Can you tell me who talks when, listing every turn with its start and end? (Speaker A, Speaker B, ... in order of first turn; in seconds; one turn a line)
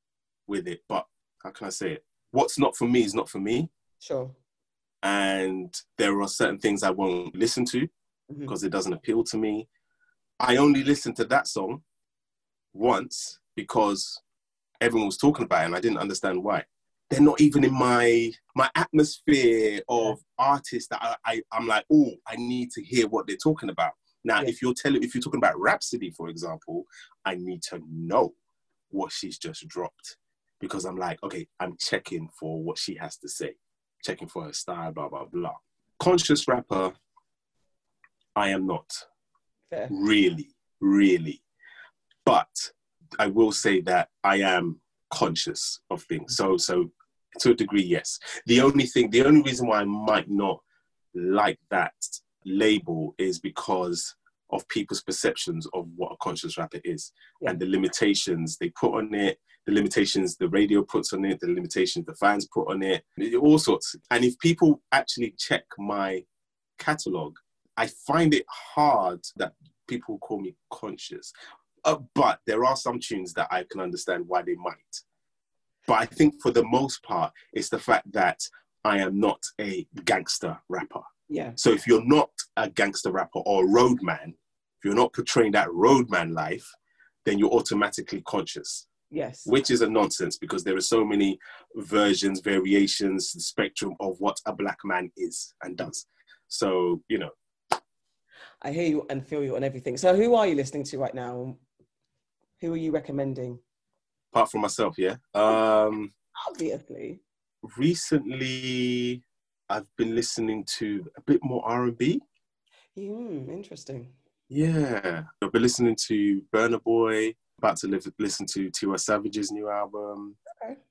Speaker A: 0.5-3.7
Speaker B: 4.0-4.4
Speaker A: 5.0-7.9
Speaker A: 8.5-9.7
Speaker A: 10.4-11.8
Speaker A: 12.7-14.2
Speaker A: 14.8-28.4
Speaker A: 28.9-36.9
Speaker A: 38.4-39.0
Speaker B: 39.7-40.0
Speaker A: 39.9-41.4
Speaker A: 42.2-50.6
Speaker A: 51.1-66.2
Speaker A: 66.8-75.0
Speaker A: 75.9-81.0
Speaker B: 81.3-81.6
Speaker A: 81.6-86.7
Speaker A: 87.2-88.9
Speaker B: 89.1-89.5
Speaker A: 89.5-97.3
Speaker B: 98.6-101.6
Speaker B: 102.6-103.6
Speaker A: 104.3-106.1
Speaker B: 106.4-107.2
Speaker A: 107.6-112.2
Speaker B: 113.0-114.1
Speaker A: 114.5-120.4